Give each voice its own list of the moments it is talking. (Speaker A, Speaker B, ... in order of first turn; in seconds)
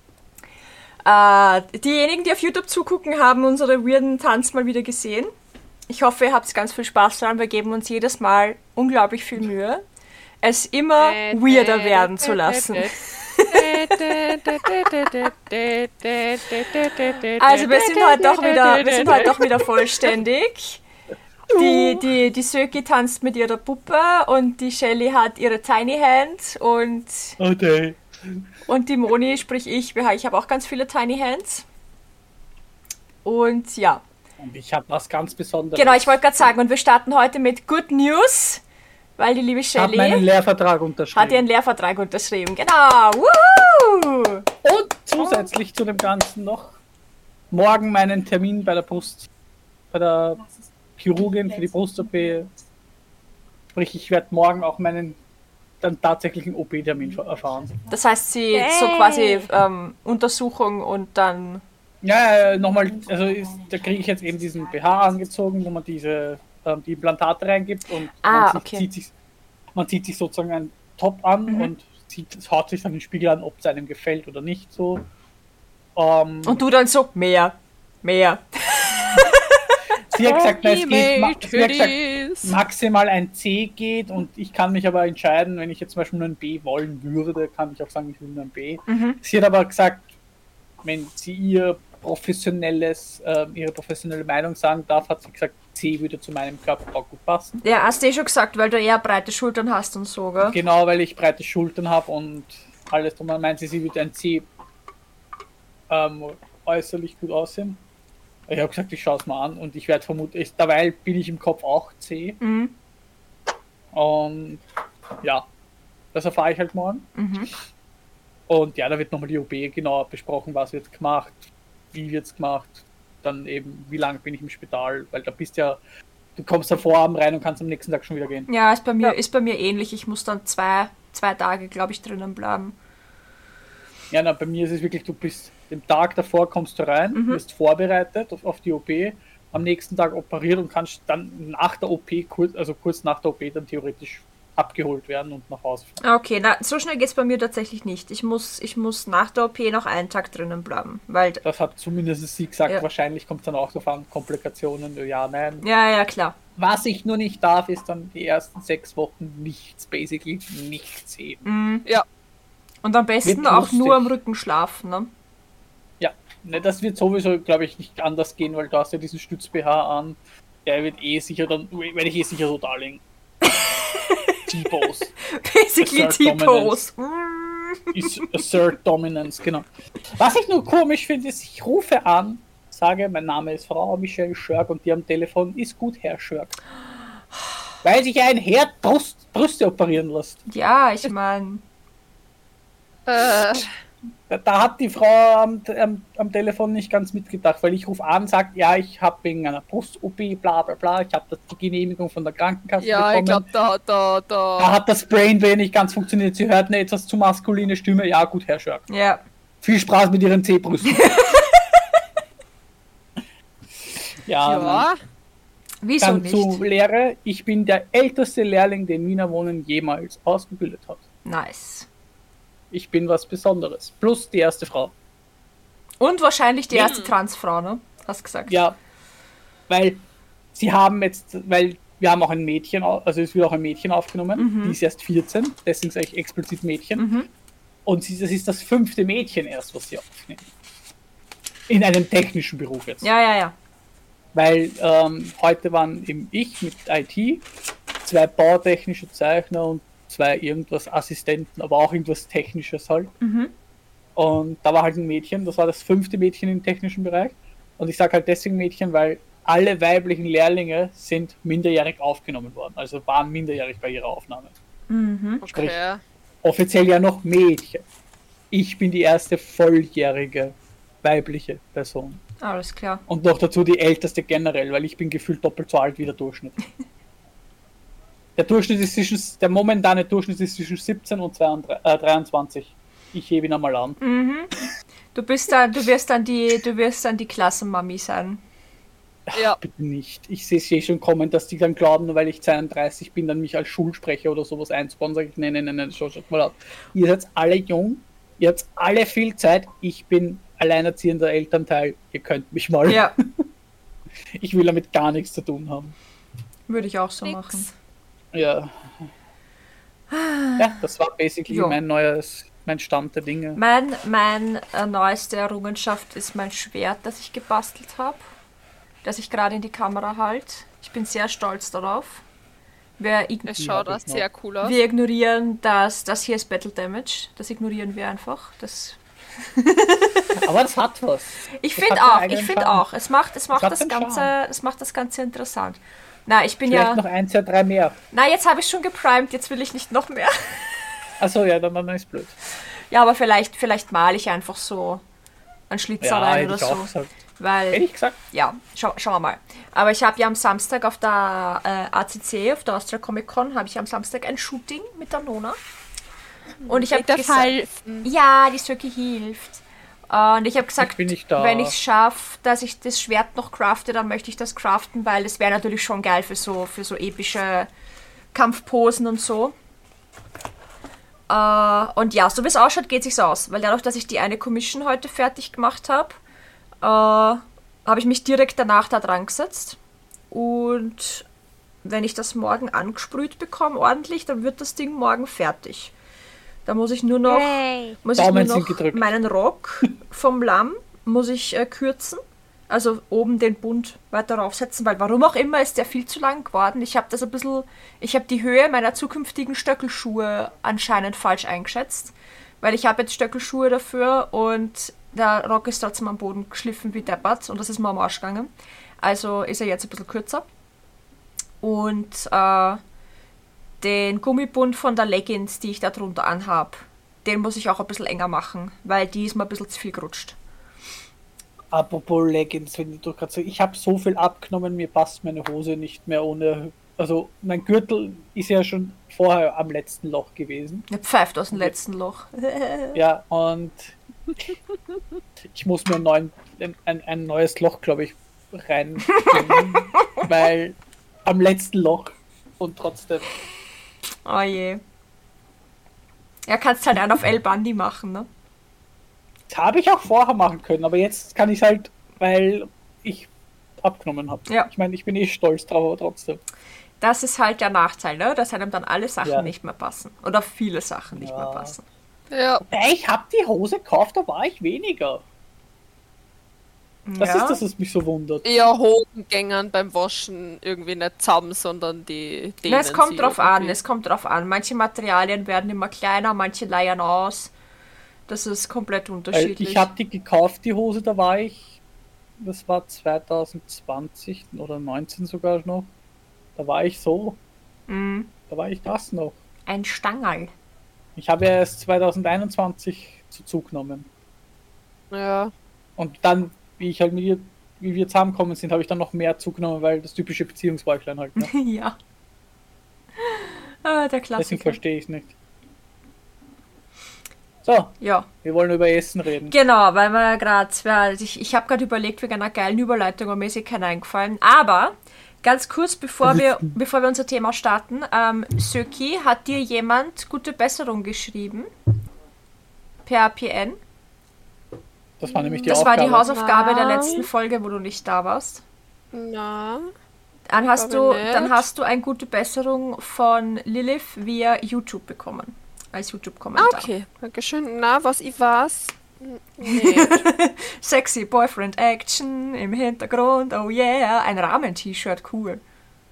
Speaker A: 1.0-5.3, 5.9-9.8, 10.4-14.0, 17.4-20.8, 21.5-27.4, 28.6-31.6, 33.2-34.0, 35.7-38.6, 39.2-40.3, 41.1-44.5, 45.1-45.5, 57.9-61.6, 68.2-68.9, 76.4-79.8, 88.9-89.2, 97.6-100.6, 112.4-112.7, 117.2-117.5, 128.5-132.8, 137.1-137.4, 146.0-151.4, 155.6-156.3, 161.4-161.9, 162.8-165.1, 173.5-174.4, 175.2-178.2, 190.5-191.6, 208.9-209.2, 210.9-211.8, 215.8-216.6, 221.2-221.9, 226.0-228.6, 234.3-234.8, 236.9-237.3, 243.0-243.6, 253.2-253.5, 264.9-265.5, 272.4-273.0, 284.0-284.5, 285.1-288.4, 302.9-303.1, 306.7-307.7, 310.1-310.8, 311.5-311.8, 313.6-318.2, 319.0-322.2, 323.0-323.7, 324.6-330.3, 331.6-337.0, 338.1-340.8, 342.9-345.0, 345.7-355.6, 356.6-357.5, 358.0-367.7, 368.3-369.5, 371.3-376.2, 376.8-379.8, 380.3-381.2, 381.8-385.9, 386.6-410.4, 411.6-412.8, 413.8-420.4, 430.9-433.0, 439.1-440.0, 444.2-444.8, 446.5-448.3, 457.0-461.8, 467.1-467.6, 472.7-477.5, 478.3-479.9, 487.9-488.3, 489.7-490.5, 501.4-502.0, 503.2-504.8, 508.0-508.3, 509.5-521.7, 523.0-523.8, 525.3-528.6, 530.5-536.9, 539.6-545.6
Speaker B: 11.0-19.5, 58.5-59.5, 80.2-82.5, 193.1-193.7, 202.8-204.8, 214.4-215.0, 226.8-227.1, 265.4-266.0, 289.3-289.6, 307.2-307.7, 323.5-324.7, 356.6-358.1, 387.3-388.0, 462.3-462.6, 468.4-473.7, 495.1-495.5, 526.2-527.3, 529.1-529.9, 530.8-531.6, 536.6-540.2
Speaker C: 21.5-21.9, 27.4-28.4, 34.4-36.5, 39.7-41.4, 44.6-46.8, 47.5-49.3, 49.9-50.4, 51.0-52.5, 53.7-55.2, 55.8-57.8, 62.0-69.1, 69.7-75.0, 75.9-76.6, 80.1-90.1, 90.8-97.6, 100.5-104.5, 105.9-107.8, 108.5-112.4, 113.9-114.6, 115.2-115.5, 116.1-117.2, 118.5-125.8, 126.3-128.5, 134.1-146.0, 151.4-155.6, 156.6-161.4, 163.2-164.1, 166.0-173.0, 174.4-175.1, 175.8-176.9, 177.9-186.5, 187.8-190.4, 194.3-203.4, 204.6-208.8, 209.6-211.2, 213.9-214.8, 216.0-221.0, 222.7-224.9, 228.5-228.8, 229.7-237.1, 237.8-240.5, 241.7-243.1, 244.3-247.5, 248.0-253.1, 254.2-264.5, 265.5-265.8, 266.4-267.8, 268.5-272.2, 273.1-276.6, 278.4-284.0, 289.3-303.4, 304.4-305.9, 308.3-308.7, 310.6-313.6, 323.6-324.2, 330.3-332.8, 333.5-334.3, 336.7-338.0, 341.2-342.4, 346.0-347.1, 347.7-348.2, 360.8-361.7, 388.1-389.1, 421.7-430.9, 432.9-433.9, 435.4-443.2, 449.5-456.4, 459.2-459.5, 461.1-461.8, 462.6-465.2, 467.2-468.4, 479.3-481.8, 482.4-485.9, 486.6-487.4, 488.5-489.4, 491.1-494.1, 496.0-501.5, 504.4-505.3, 507.6-509.5, 525.2-526.2